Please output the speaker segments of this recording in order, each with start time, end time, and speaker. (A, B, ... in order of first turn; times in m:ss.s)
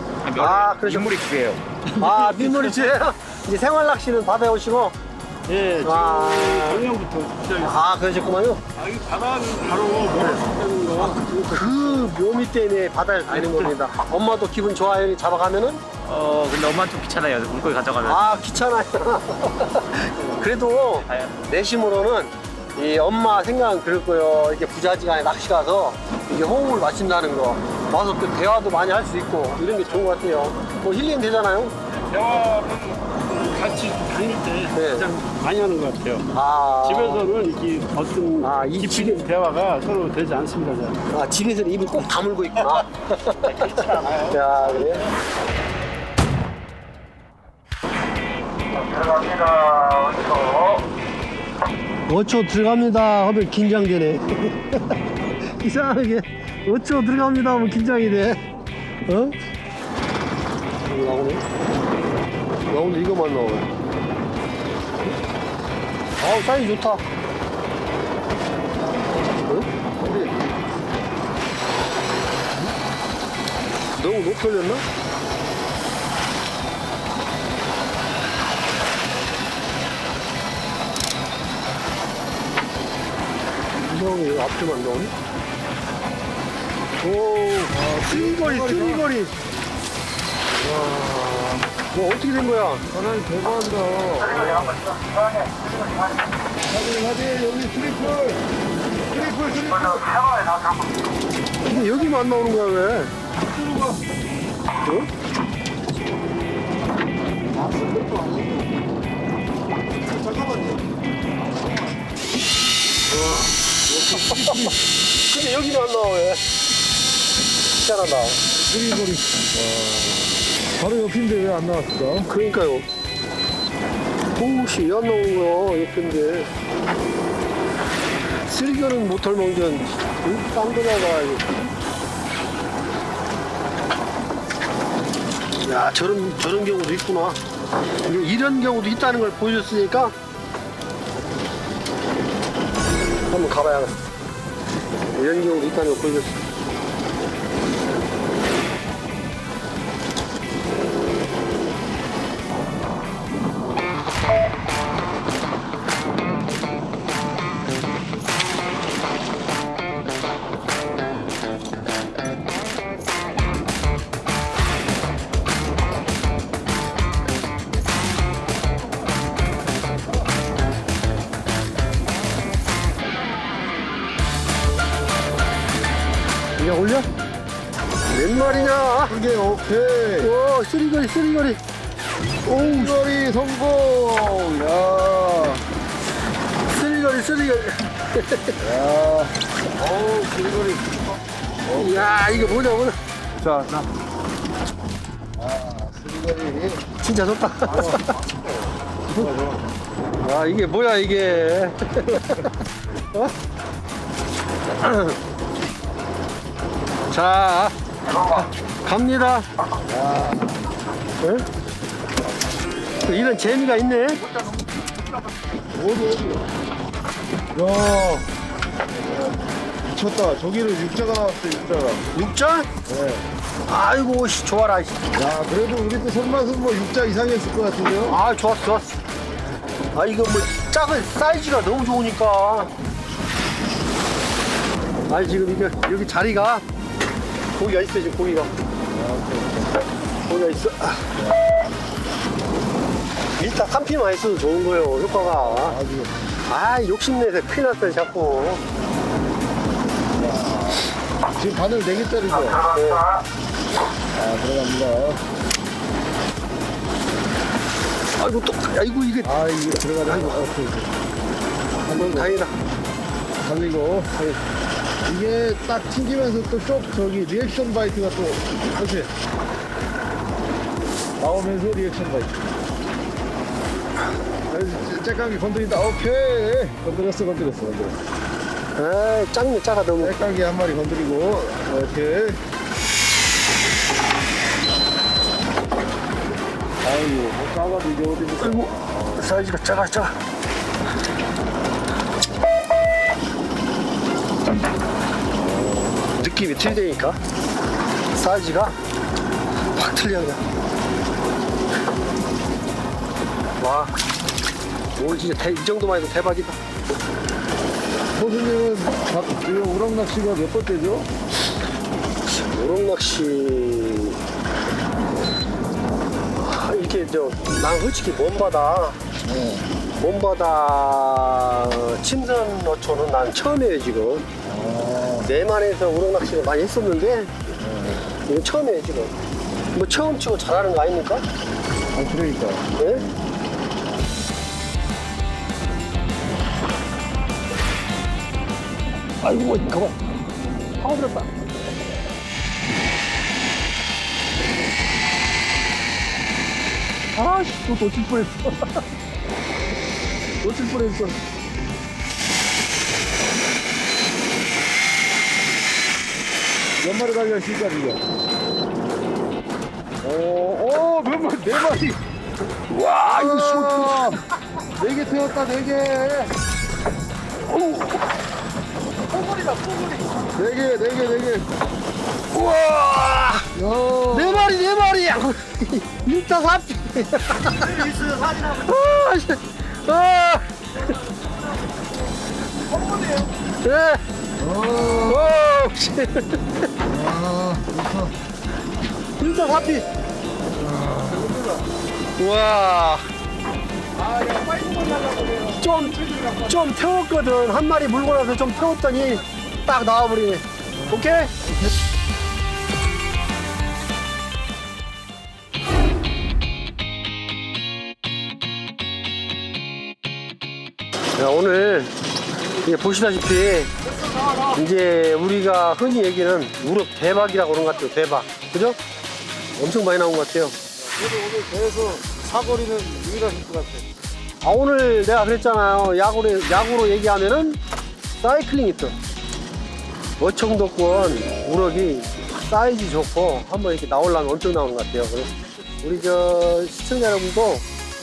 0:00.2-0:01.6 A
0:00.3-0:01.3 B
0:01.9-0:02.8 C
0:02.0-0:04.9 B
0:05.5-0:07.8 C
0:05.8-0:06.9 B
0:07.6-0:08.6 B
0:08.7-0:12.1 C
0:11.0-0:15.8 B
0:13.3-0:13.7 A
0:16.0-0:18.3 A
0:18.0-0:31.7 B
0:21.0-0:21.3 A
0:31.9-0:36.3 C
0:34.7-0:35.1 B
0:36.3-0:37.2 B
0:36.8-0:41.0 C
0:38.4-0:39.2 B
0:41.1-0:45.0 B
0:42.6-0:42.8 C
0:43.4-0:45.1 C
0:48.7-0:50.9 D
0:52.1-0:55.0 B
0:55.5-0:58.4 B
0:59.1-0:59.4 B
1:00.8-1:01.4 B
1:02.7-1:03.7 B
1:06.2-1:07.0 B
1:10.0-1:10.5 E
1:14.0-1:14.8 B
1:23.8-1:25.1 B
1:27.0-1:29.3 B
1:27.7-1:29.1 E
1:30.6-1:31.6 E
1:31.9-1:32.8 B
1:32.9-1:34.8 E
1:34.2-1:36.3 D
1:36.6-1:38.4 E
1:39.0-1:40.1 E
1:39.6-1:41.0 D
1:41.6-1:43.1 B
1:43.4-1:44.0 E
1:47.5-1:48.8 E
1:50.0-1:50.9 E
1:53.1-1:54.8 E
1:54.1-1:56.4 B
1:57.7-1:58.4 B
1:58.5-2:02.3 E
2:02.3-2:02.8 B
2:04.4-2:06.5 B
2:08.5-2:11.5 B
2:15.6-2:17.4 B
2:18.0-2:20.1 B
2:23.3-2:23.9 B
2:25.1-2:26.4 B
2:56.6-2:57.1 B
2:58.1-2:59.2 B
2:58.3-3:00.3 E
3:00.2-3:01.6 B
3:02.4-3:02.9 B
3:02.4-3:05.6 E
3:06.7-3:08.6 B
3:08.6-3:12.7 E
3:11.7-3:13.0 B
3:13.3-3:13.9 E
3:15.4-3:16.8 E
3:17.0-3:18.1 B
3:17.6-3:19.6 E
3:20.2-3:22.5 B
3:24.7-3:25.2 B
3:27.1-3:29.5 B
3:28.1-3:28.4 D
3:29.9-3:30.5 E
3:31.2-3:31.5 B
3:33.0-3:34.2 B
3:35.7-3:36.5 E
3:37.5-3:38.3 E
3:39.8-3:42.1 E
3:42.1-3:42.7 B
3:42.8-3:43.2 E
3:43.7-3:45.0 B
3:45.1-3:48.2 E
3:48.1-3:49.0 B
3:49.9-3:52.7 B
3:55.1-3:56.6 B
3:57.5-3:58.5 B
3:58.9-3:59.8 E
4:00.3-4:01.1 B
4:03.4-4:05.8 B
4:05.4-4:06.1 E
4:06.5-4:08.6 B
4:10.1-4:12.6 E
4:12.3-4:13.2 D
4:12.7-4:13.0 B
4:14.1-4:15.2 E
4:18.2-4:19.4 B
4:19.2-4:20.9 E
4:20.0-4:20.4 B
4:21.9-4:22.3 E
4:21.9-4:22.5 B
4:23.4-4:24.1 E
4:25.0-4:29.1 E
4:31.2-4:32.5 E
4:34.5-4:38.0 E
4:38.8-4:40.2 B
4:40.0-4:42.4 E
4:46.8-4:49.3 E
4:48.4-4:50.2 B
4:55.3-4:56.1 E
4:56.2-4:57.2 B
4:58.1-4:58.8 B
4:59.8-5:00.4 B
5:03.6-5:03.9 B
5:05.0-5:06.6 B
5:08.1-5:11.1 E
5:12.2-5:14.2 B
5:16.4-5:19.0 B
5:19.2-5:19.7 E
5:20.0-5:24.3 B
5:24.4-5:25.3 E
5:25.2-5:27.3 B
5:27.6-5:28.1 E
5:28.2-5:29.1 B
5:29.7-5:31.2 B
5:31.9-5:33.2 E
5:32.8-5:33.0 B
5:39.2-5:40.0 B
5:40.8-5:41.3 B
5:47.1-5:48.8 B
5:50.4-5:51.1 B
5:56.8-5:58.0 E
6:00.0-6:02.0 E
6:02.7-6:04.2 E
6:02.8-6:04.2 B
6:04.8-6:06.3 E
6:07.5-6:08.0 B
6:09.1-6:10.1 B
6:10.3-6:11.5 E
6:12.3-6:13.5 B
6:13.5-6:14.6 E
6:14.1-6:20.9 B
6:17.5-6:18.3 E
6:23.0-6:23.2 C
6:23.6-6:24.0 B
6:24.4-6:25.4 E
6:25.0-6:26.7 B
6:26.8-6:28.1 E
6:29.2-6:29.8 B
6:30.5-6:31.7 E
6:32.2-6:33.0 B
6:34.0-6:35.5 C
6:35.6-6:41.3 B
6:40.8-6:41.7 E
6:51.2-6:51.9 B
6:52.6-6:53.7 B
6:54.5-6:58.8 B
6:59.6-7:00.6 B
7:00.8-7:03.8 E
7:04.4-7:07.6 B
7:08.2-7:08.9 B
7:10.2-7:17.6 B